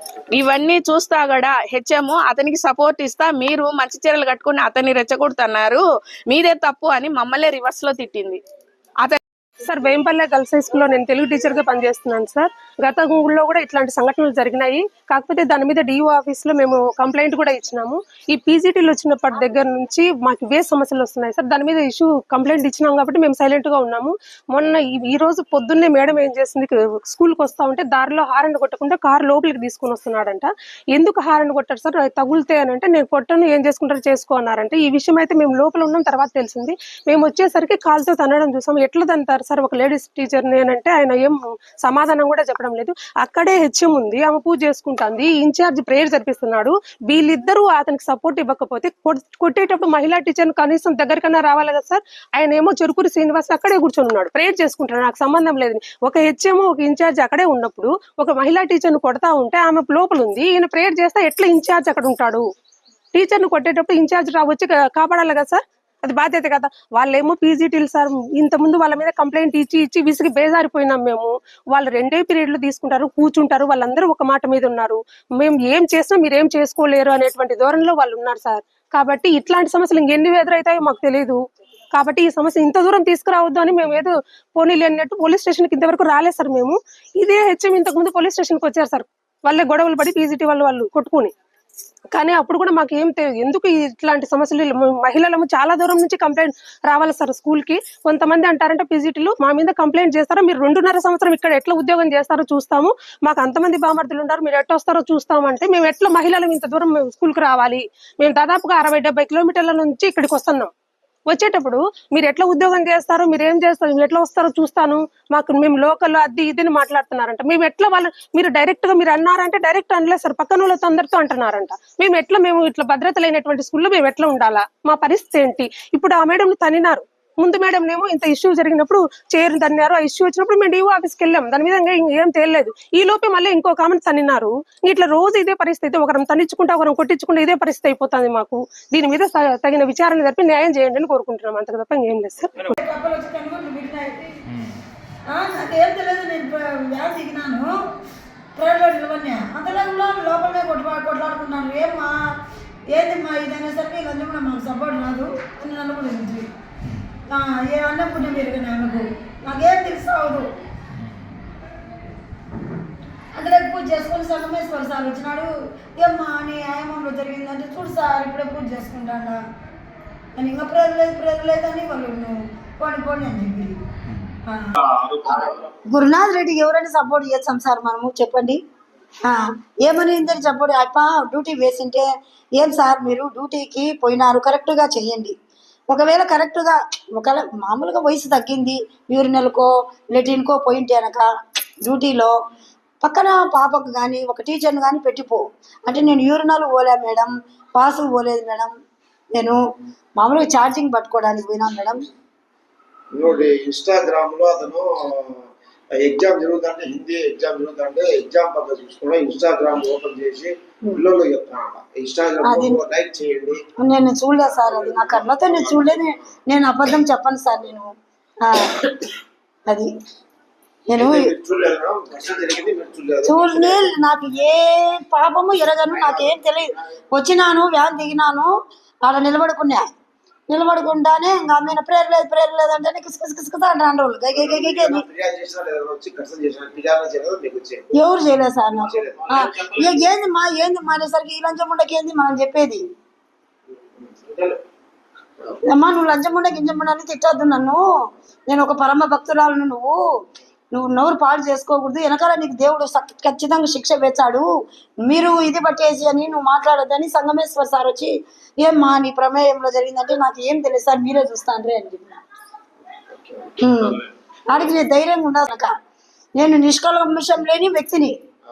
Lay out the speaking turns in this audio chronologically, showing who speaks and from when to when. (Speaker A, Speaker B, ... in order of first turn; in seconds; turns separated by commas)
Speaker A: 0.3-8.4, Speaker B: 9.6-62.5, Speaker B: 63.1-81.4, Speaker B: 81.9-91.3, Speaker B: 92.1-110.7, Speaker B: 111.3-142.5, Speaker C: 142.8-144.4, Speaker C: 145.3-147.7, Speaker C: 148.6-152.1, Speaker C: 152.9-156.5, Speaker C: 157.3-160.4, Speaker C: 163.3-169.4, Speaker C: 170.4-173.8, Speaker D: 175.2-175.6, Speaker C: 175.9-178.6, Speaker C: 179.2-182.1, Speaker C: 182.6-185.3, Speaker C: 185.9-191.2, Speaker C: 191.8-192.3, Speaker C: 193.0-198.7, Speaker C: 200.2-202.0, Speaker D: 203.1-213.6, Speaker C: 212.4-212.8, Speaker C: 213.8-217.9, Speaker D: 214.4-216.1, Speaker C: 218.5-218.9, Speaker C: 220.9-221.3, Speaker D: 220.9-223.9, Speaker C: 223.2-228.5, Speaker D: 225.9-226.3, Speaker C: 229.1-229.8, Speaker C: 230.5-235.0, Speaker D: 234.3-237.9, Speaker C: 238.0-242.8, Speaker D: 238.7-239.9, Speaker D: 244.0-244.6, Speaker C: 245.7-247.8, Speaker C: 248.5-250.0, Speaker C: 250.7-254.5, Speaker C: 255.1-262.2, Speaker D: 263.1-264.0, Speaker C: 263.6-265.7, Speaker C: 266.4-268.1